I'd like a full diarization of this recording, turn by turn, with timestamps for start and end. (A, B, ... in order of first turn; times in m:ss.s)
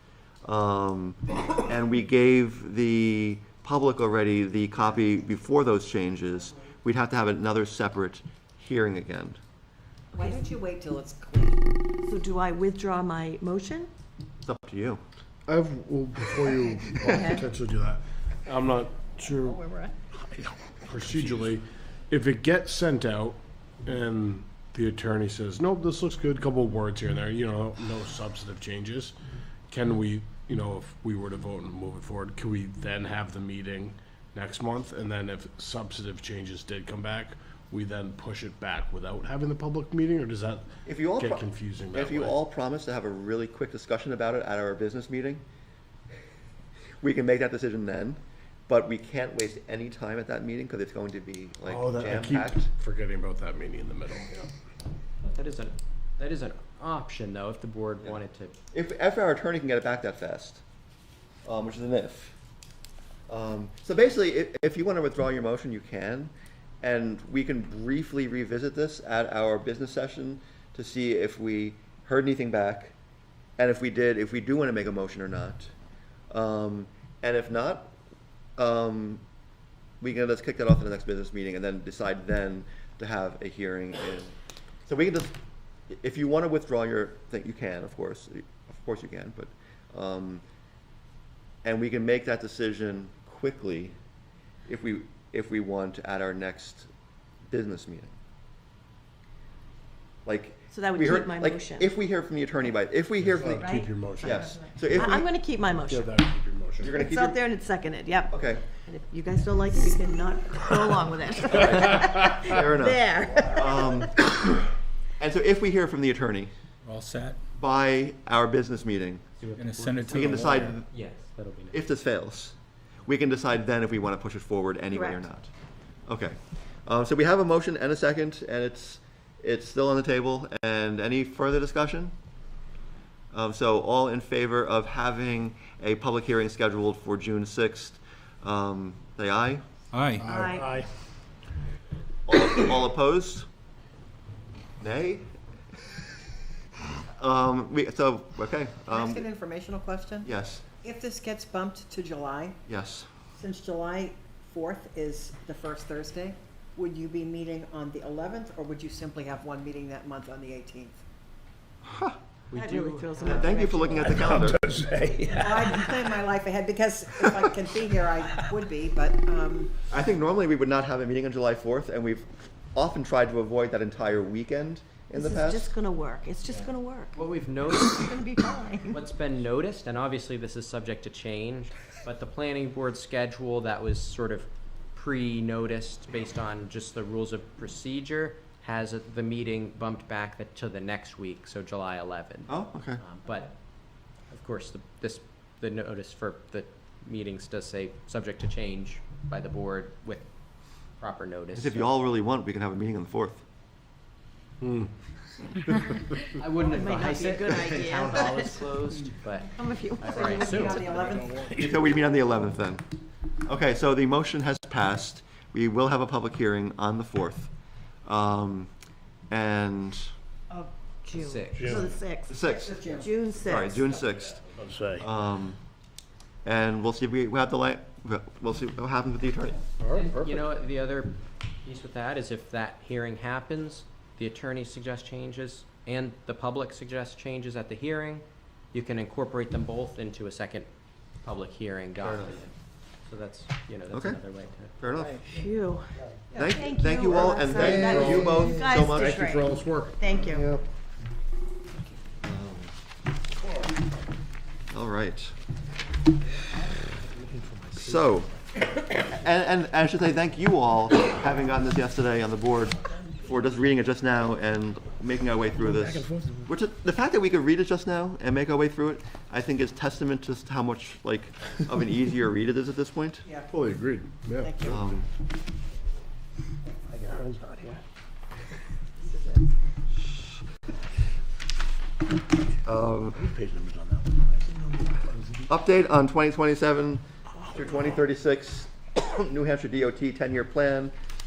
0:00.4-0:09.4 A
0:10.1-0:11.7 B
0:10.2-0:10.4 C
0:12.0-0:13.9 C
0:14.4-0:15.0 A
0:15.5-0:19.6 D
0:19.4-0:19.9 C
0:20.8-0:29.1 D
0:29.7-0:40.6 D
0:40.8-0:45.4 A
0:41.2-0:42.4 D
0:47.0-0:52.7 A
0:51.6-0:54.5 D
0:55.2-0:58.5 E
0:58.7-1:00.6 A
1:01.4-1:02.4 A
1:03.3-1:12.9 A
1:13.6-1:15.7 A
1:16.3-1:17.9 A
1:18.6-1:19.2 A
1:20.0-1:24.3 A
1:24.8-1:25.3 A
1:25.9-1:30.4 A
1:31.6-1:33.9 A
1:34.7-1:36.9 A
1:37.5-1:38.1 A
1:40.2-1:43.7 A
1:40.7-1:42.0 C
1:43.2-1:45.1 D
1:43.5-1:46.2 C
1:44.2-1:45.3 A
1:45.6-1:46.9 D
1:46.8-1:47.4 A
1:46.9-1:54.1 C
1:48.3-1:48.6 A
1:51.5-1:54.7 A
1:55.2-1:56.5 A
1:56.8-1:57.4 F
1:57.6-1:59.2 A
1:59.4-2:01.8 E
1:59.6-2:00.7 F
2:00.0-2:00.9 A
2:01.7-2:05.5 A
2:04.9-2:05.2 C
2:06.1-2:12.1 A
2:13.3-2:19.6 A
2:19.9-2:20.3 F
2:20.2-2:20.8 C
2:22.3-2:23.4 A
2:24.8-2:25.3 A
2:27.2-2:29.3 A
2:28.9-2:30.3 B
2:30.2-2:30.6 A
2:30.8-2:32.6 B
2:32.7-2:33.1 A
2:33.3-2:41.0 B
2:42.5-2:43.3 E
2:42.5-2:45.2 C
2:43.2-2:44.8 A
2:45.3-2:49.7 B
2:49.9-2:55.7 A
2:55.1-2:57.1 C
2:57.2-2:58.2 E
2:57.7-2:59.0 C
2:58.9-3:13.5 E
3:12.5-3:13.0 A
3:14.3-3:20.3 E
3:21.0-3:21.9 E
3:21.5-3:23.4 A
3:24.6-3:24.9 D
3:26.3-3:29.5 E
3:26.6-3:28.6 C
3:29.5-3:30.9 C
3:30.0-3:31.0 E
3:30.1-3:31.7 B
3:30.5-3:31.5 D
3:31.5-3:32.8 A
3:33.4-3:37.5 A
3:38.0-3:38.7 A
3:39.3-3:40.0 A
3:40.5-3:43.9 C
3:41.1-3:41.8 E
3:42.3-3:45.6 A
3:42.5-3:43.1 B
3:44.6-3:45.0 D
3:46.4-3:49.7 A
3:49.8-3:50.4 D
3:49.9-4:00.7 E
4:01.2-4:02.5 E
4:02.0-4:02.4 A
4:03.0-4:04.7 E
4:03.9-4:04.2 A
4:04.8-4:05.2 A
4:05.2-4:10.4 C
4:06.3-4:09.2 A
4:07.7-4:08.4 D
4:08.9-4:09.9 D
4:10.1-4:10.6 A
4:12.2-4:12.7 A
4:14.7-4:15.3 A
4:17.7-4:18.3 A
4:19.0-4:33.3 A
4:33.5-4:34.6 D
4:34.4-4:34.8 B
4:34.6-4:35.1 A
4:37.2-4:37.8 D
4:42.6-4:43.3 A
4:43.4-4:45.0 C
4:45.4-4:50.9 A